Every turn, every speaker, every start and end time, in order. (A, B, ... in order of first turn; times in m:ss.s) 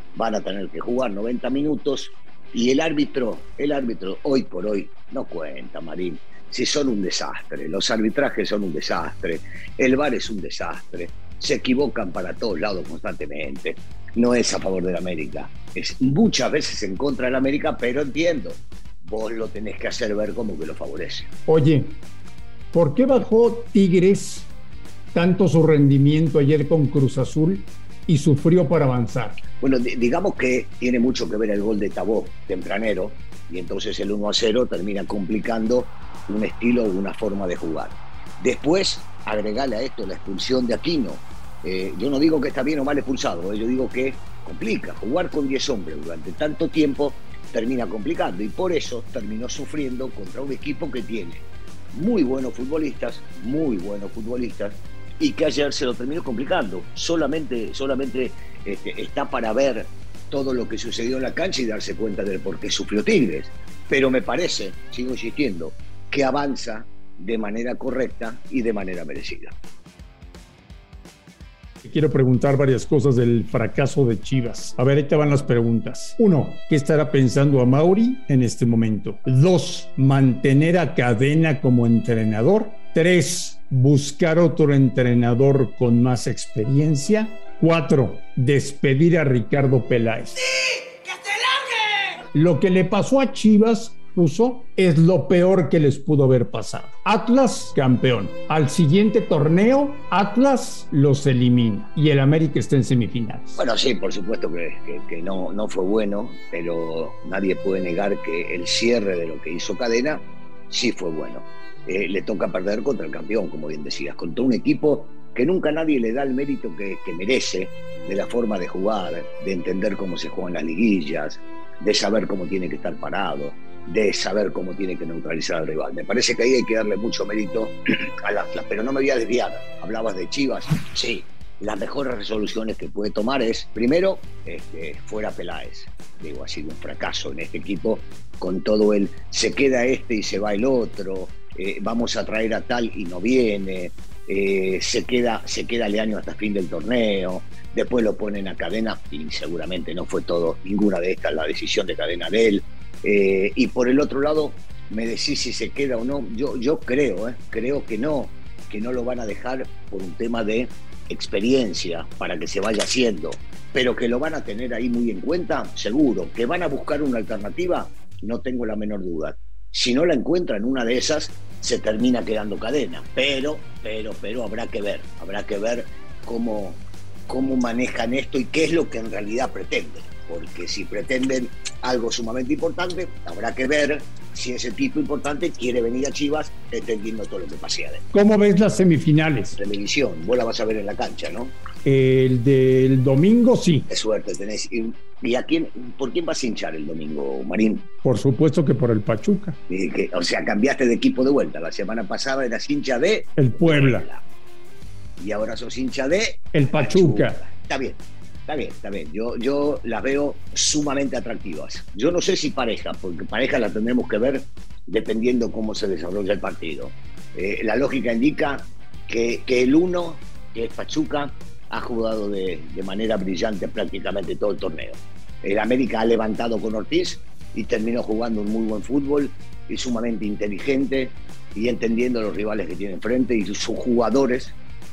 0:00.2-0:21.3 A
0:21.5-0:22.0 B
0:22.7-0:24.5 B
0:25.1-0:29.4 B
0:29.6-1:09.5 A
1:11.8-1:30.4 B
1:32.3-1:43.6 B
1:43.6-3:08.0 A
3:08.1-3:09.6 B
3:09.6-3:11.6 A
3:11.8-3:13.9 B
3:13.9-3:17.9 A
3:18.0-3:19.6 B
3:19.7-3:24.2 A
3:23.4-3:24.1 B
3:25.2-3:54.6 A
3:26.5-3:27.4 B